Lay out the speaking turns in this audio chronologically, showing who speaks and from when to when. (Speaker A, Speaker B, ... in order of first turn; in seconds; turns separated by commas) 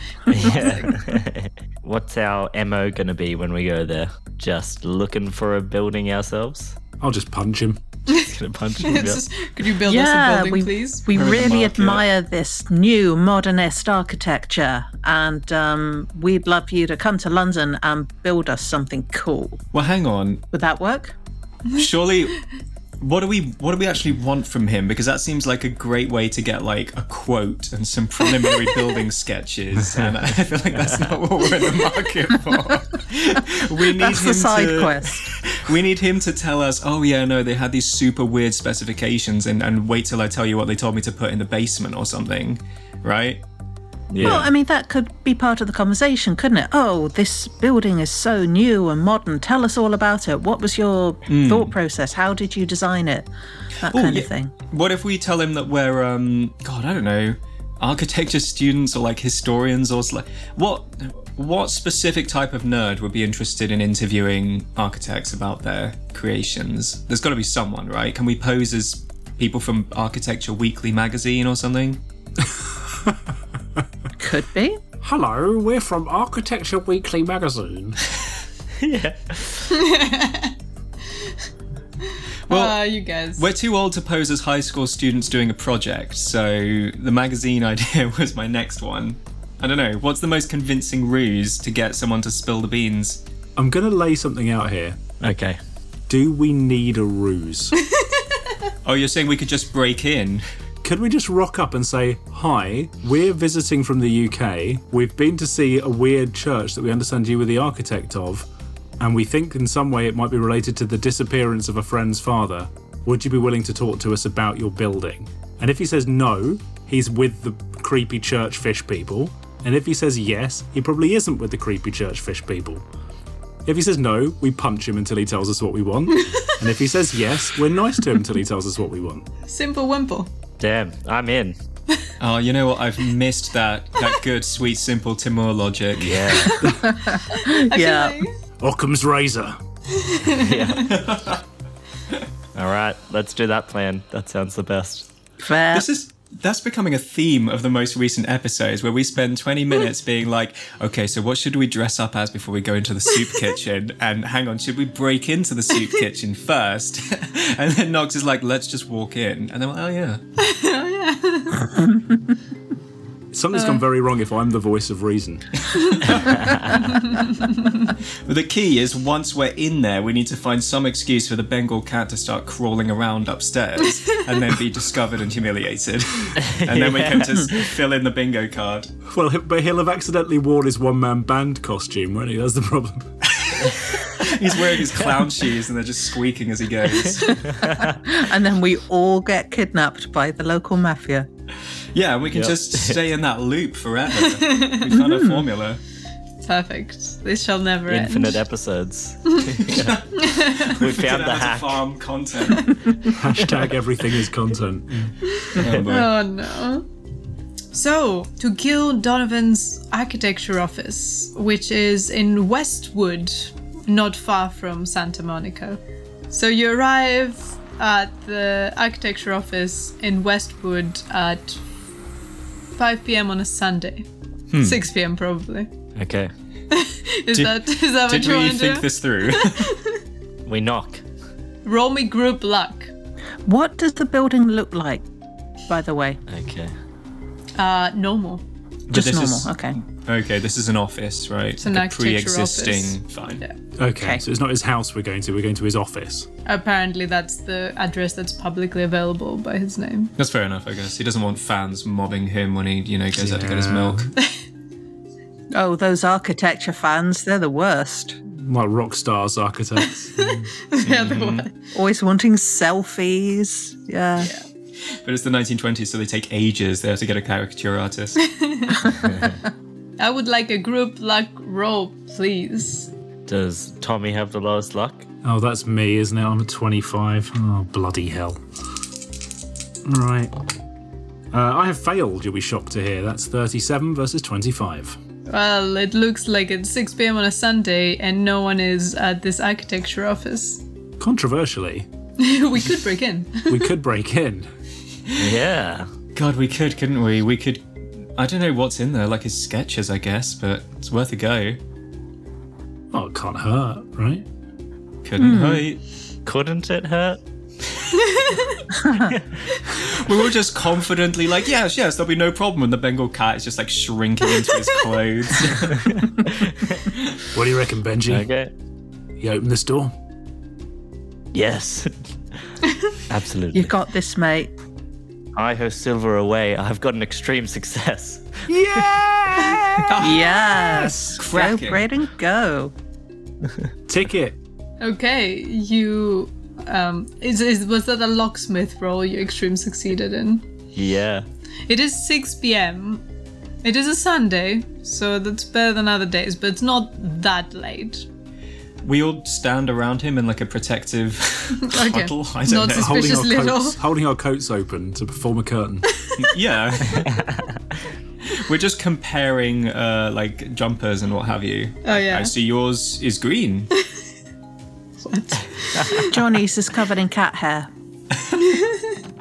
Speaker A: 0.3-6.8, Speaker B: 0.4-0.9, Speaker C: 7.0-7.8, Speaker A: 8.1-9.2, Speaker B: 8.8-11.1, Speaker D: 9.8-19.6, Speaker E: 11.1-12.1, Speaker E: 19.7-20.4, Speaker D: 20.5-21.2, Speaker E: 21.8-22.4, Speaker E: 23.0-43.4, Speaker D: 33.9-35.3, Speaker A: 44.1-44.5, Speaker E: 44.2-44.5, Speaker D: 44.2-53.3, Speaker E: 51.3-51.8, Speaker D: 53.8-54.5, Speaker E: 53.9-72.0, Speaker C: 72.5-73.2, Speaker D: 74.2-74.8, Speaker C: 75.0-78.0, Speaker A: 78.8-79.7, Speaker B: 79.7-80.5, Speaker B: 82.5-83.5, Speaker E: 82.5-82.8, Speaker E: 83.3-93.2, Speaker C: 93.6-95.0, Speaker A: 95.2-95.6, Speaker C: 96.1-97.8, Speaker B: 97.9-98.2, Speaker E: 98.8-100.5, Speaker C: 100.8-108.5, Speaker C: 109.0-122.8, Speaker C: 123.7-129.3, Speaker B: 126.2-126.5, Speaker B: 129.5-130.3, Speaker A: 130.6-131.6, Speaker E: 132.2-136.5, Speaker A: 136.0-136.5, Speaker B: 136.4-138.3, Speaker C: 136.5-136.9, Speaker D: 136.8-138.2, Speaker C: 138.6-139.6, Speaker B: 139.9-140.9, Speaker A: 140.3-140.9, Speaker E: 140.9-141.4, Speaker A: 142.6-145.1, Speaker D: 145.4-145.9, Speaker E: 145.7-160.2, Speaker B: 160.4-161.8, Speaker C: 163.3-166.1, Speaker B: 163.6-163.8, Speaker B: 165.8-166.1, Speaker B: 166.8-167.9, Speaker E: 168.3-178.9, Speaker B: 174.0-174.2, Speaker A: 176.4-177.7, Speaker C: 179.1-183.1, Speaker E: 183.3-187.5, Speaker A: 187.3-187.9, Speaker D: 188.1-191.3, Speaker E: 191.9-195.8, Speaker A: 192.3-193.0, Speaker B: 194.3-195.1, Speaker B: 196.4-198.4, Speaker A: 197.9-200.0, Speaker E: 199.7-202.8, Speaker B: 200.2-200.7, Speaker A: 200.7-201.8, Speaker C: 203.1-205.1, Speaker B: 205.2-206.9, Speaker E: 205.6-206.1, Speaker B: 207.7-221.6, Speaker B: 222.8-224.1, Speaker B: 224.6-225.7, Speaker A: 226.0-226.3, Speaker B: 226.7-230.0, Speaker E: 227.3-229.7, Speaker A: 230.4-231.0, Speaker B: 231.7-232.9, Speaker D: 233.4-235.0, Speaker D: 235.7-236.2, Speaker A: 236.3-236.7, Speaker B: 237.6-238.4, Speaker E: 238.9-243.4, Speaker D: 238.9-239.8, Speaker B: 241.6-243.6, Speaker C: 243.8-246.3, Speaker D: 244.0-244.2, Speaker B: 246.5-250.1, Speaker E: 250.2-254.1, Speaker C: 253.2-254.1, Speaker D: 255.5-258.2, Speaker C: 258.3-260.5, Speaker B: 259.8-261.5, Speaker E: 260.8-261.5, Speaker D: 261.7-264.3, Speaker B: 264.2-264.5, Speaker E: 265.0-268.2, Speaker B: 268.2-269.0, Speaker B: 270.0-272.9, Speaker A: 273.3-275.1, Speaker C: 275.2-278.4, Speaker C: 279.9-280.3, Speaker C: 281.3-285.0, Speaker B: 285.3-290.6, Speaker C: 291.0-291.9, Speaker B: 292.2-293.7, Speaker C: 293.5-294.5, Speaker A: 295.2-295.9, Speaker E: 296.1-297.6, Speaker E: 298.2-301.6, Speaker C: 302.9-304.2, Speaker E: 305.0-305.8, Speaker D: 305.2-305.7, Speaker A: 306.2-307.2, Speaker B: 308.0-308.6, Speaker D: 308.8-309.1, Speaker A: 309.1-309.4, Speaker E: 309.8-315.9, Speaker A: 316.0-316.8, Speaker C: 317.3-318.3, Speaker A: 318.1-318.5, Speaker C: 319.2-319.9, Speaker A: 321.3-321.9, Speaker A: 323.1-323.8, Speaker D: 323.5-324.5, Speaker A: 325.4-328.9, Speaker C: 328.5-330.0, Speaker E: 329.9-331.9, Speaker D: 330.0-332.7, Speaker C: 330.8-331.1, Speaker C: 333.9-334.4, Speaker B: 334.8-340.5, Speaker A: 340.8-341.3, Speaker B: 341.7-343.0, Speaker B: 343.6-348.1, Speaker E: 348.8-353.0, Speaker B: 351.6-353.8, Speaker C: 352.7-355.9, Speaker E: 356.2-357.2, Speaker E: 358.3-363.7, Speaker B: 361.9-362.3, Speaker B: 365.1-366.1, Speaker D: 366.0-367.7, Speaker B: 368.3-369.0